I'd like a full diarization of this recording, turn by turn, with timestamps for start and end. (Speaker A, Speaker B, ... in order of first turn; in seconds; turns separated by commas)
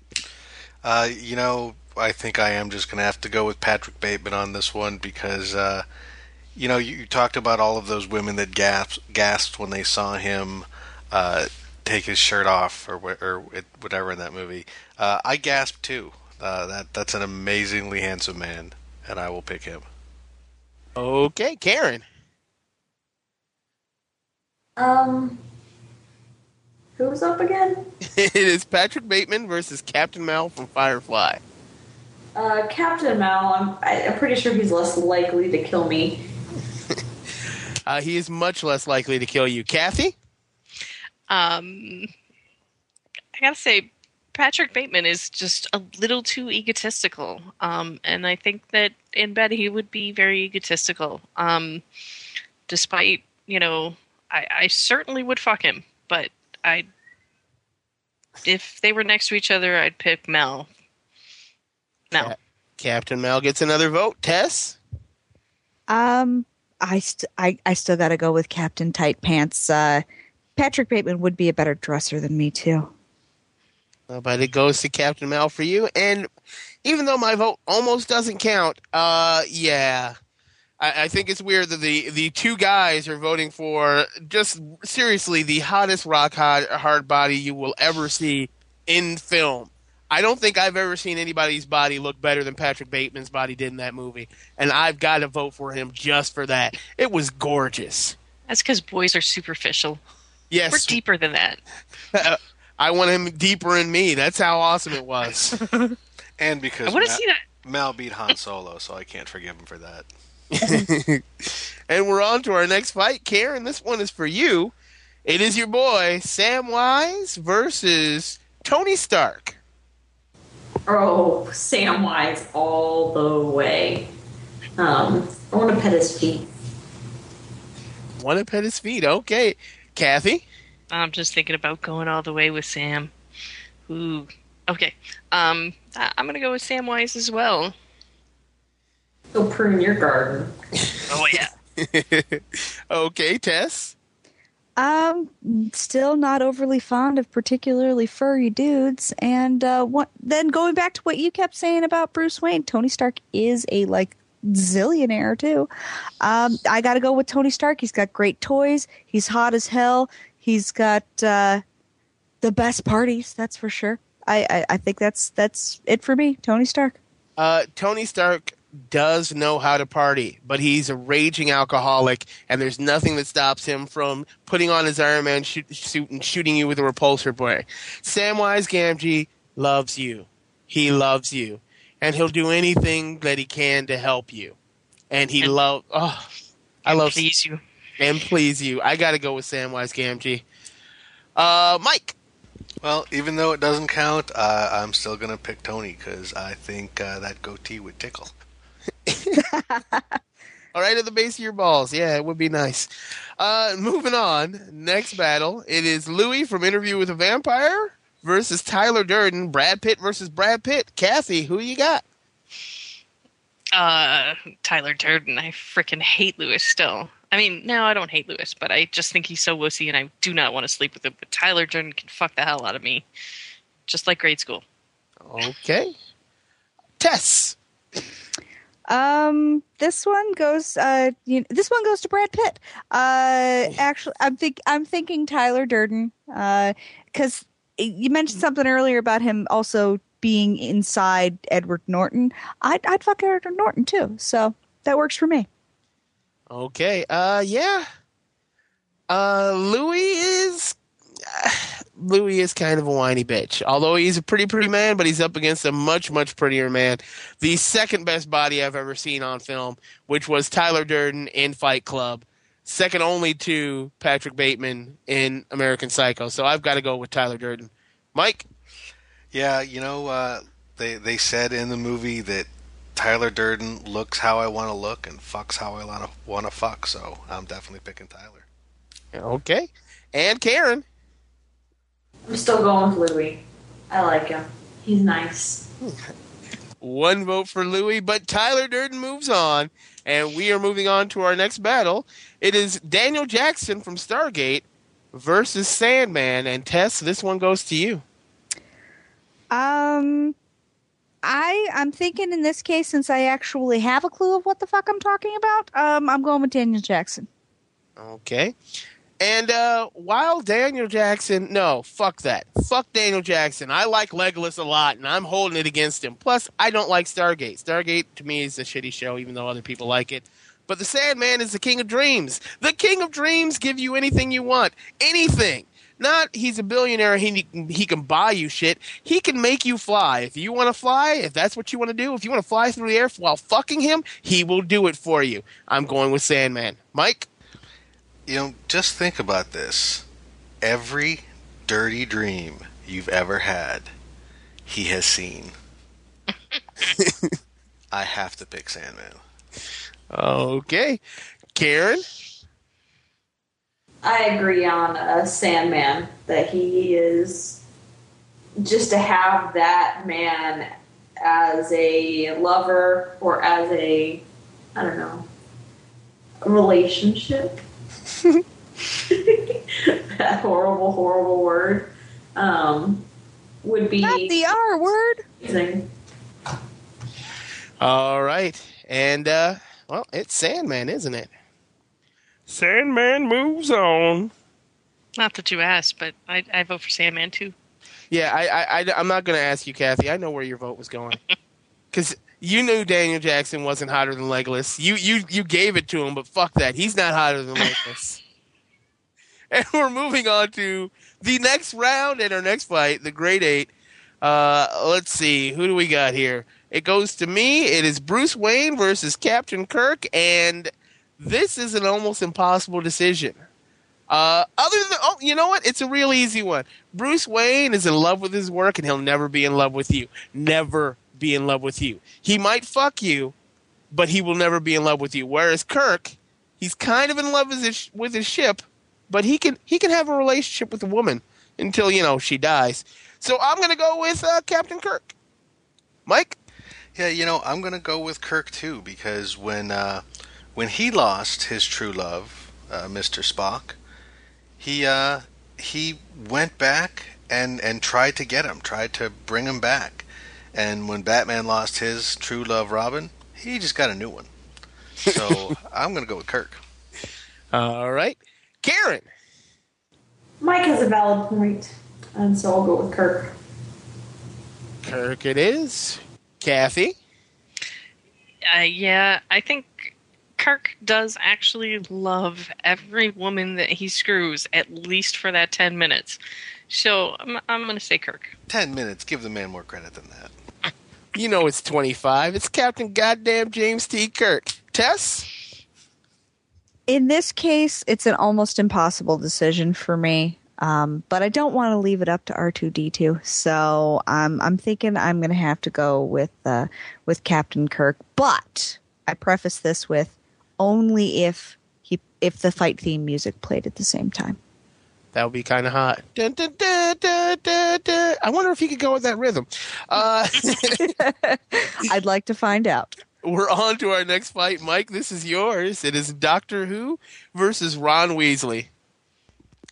Speaker A: 0.8-5.8, Speaker A: 6.6-19.9, Speaker B: 21.0-22.0, Speaker C: 24.8-25.4, Speaker C: 27.0-27.9, Speaker B: 28.1-31.4, Speaker C: 32.4-36.2, Speaker B: 37.9-40.1, Speaker D: 41.3-42.1, Speaker D: 43.4-51.8, Speaker D: 52.7-56.9, Speaker D: 58.4-60.7, Speaker B: 62.1-64.8, Speaker E: 65.9-70.0, Speaker E: 70.6-72.9, Speaker B: 74.1-76.3, Speaker B: 76.8-80.2, Speaker B: 80.8-98.2, Speaker D: 98.5-100.0, Speaker B: 100.5-101.0, Speaker D: 100.7-101.6, Speaker B: 102.1-105.6, Speaker D: 105.6-106.0, Speaker A: 106.4-110.1, Speaker D: 106.9-107.4, Speaker B: 110.5-114.7, Speaker B: 115.2-119.6, Speaker C: 120.9-124.1, Speaker C: 124.8-126.5, Speaker B: 128.2-130.4, Speaker D: 130.9-133.1, Speaker D: 133.9-137.8, Speaker C: 139.3-140.5, Speaker D: 141.1-141.5, Speaker B: 141.8-143.9, Speaker E: 144.8-155.7, Speaker E: 156.2-161.6, Speaker E: 162.4-167.0, Speaker B: 167.4-184.6, Speaker B: 185.1-186.3, Speaker B: 186.9-187.2, Speaker D: 186.9-187.6, Speaker B: 188.0-190.4, Speaker B: 191.4-192.2, Speaker A: 192.8-198.3, Speaker B: 199.1-199.4, Speaker E: 199.4-200.1, Speaker B: 200.7-212.0, Speaker D: 213.7-223.1, Speaker D: 223.9-224.6, Speaker B: 225.2-225.9, Speaker B: 227.0-227.6, Speaker E: 228.9-245.5, Speaker B: 246.5-247.9, Speaker B: 249.1-268.4, Speaker A: 269.3-278.5, Speaker B: 279.1-280.8, Speaker C: 282.3-285.6, Speaker B: 286.8-298.0, Speaker E: 299.5-300.4, Speaker E: 301.2-307.3, Speaker B: 308.0-308.6, Speaker B: 309.2-337.3, Speaker A: 338.3-340.1, Speaker A: 340.6-343.9, Speaker A: 344.7-345.6, Speaker B: 346.9-347.3, Speaker A: 347.9-349.2, Speaker B: 350.1-351.0, Speaker B: 351.6-352.0, Speaker C: 354.0-357.6, Speaker C: 358.6-360.7, Speaker C: 361.2-364.2, Speaker C: 364.8-365.3, Speaker C: 366.4-367.6, Speaker C: 369.0-373.1, Speaker C: 373.6-374.4, Speaker E: 374.0-375.2, Speaker C: 375.4-375.9, Speaker B: 377.8-381.3, Speaker B: 382.5-384.3, Speaker D: 385.2-387.6, Speaker B: 388.1-391.2, Speaker B: 391.9-398.2, Speaker B: 399.5-403.7, Speaker B: 404.2-413.4, Speaker B: 414.1-423.3, Speaker B: 423.9-435.1, Speaker B: 436.1-436.4, Speaker A: 436.9-440.0, Speaker A: 440.6-443.8, Speaker A: 444.6-454.3, Speaker A: 455.0-456.6, Speaker B: 457.5-459.1, Speaker C: 460.4-463.4, Speaker B: 464.8-466.9, Speaker D: 468.5-478.3, Speaker A: 478.5-480.3, Speaker B: 481.1-485.3, Speaker E: 486.9-504.4, Speaker B: 505.1-511.0, Speaker E: 511.0-513.0, Speaker B: 513.2-518.7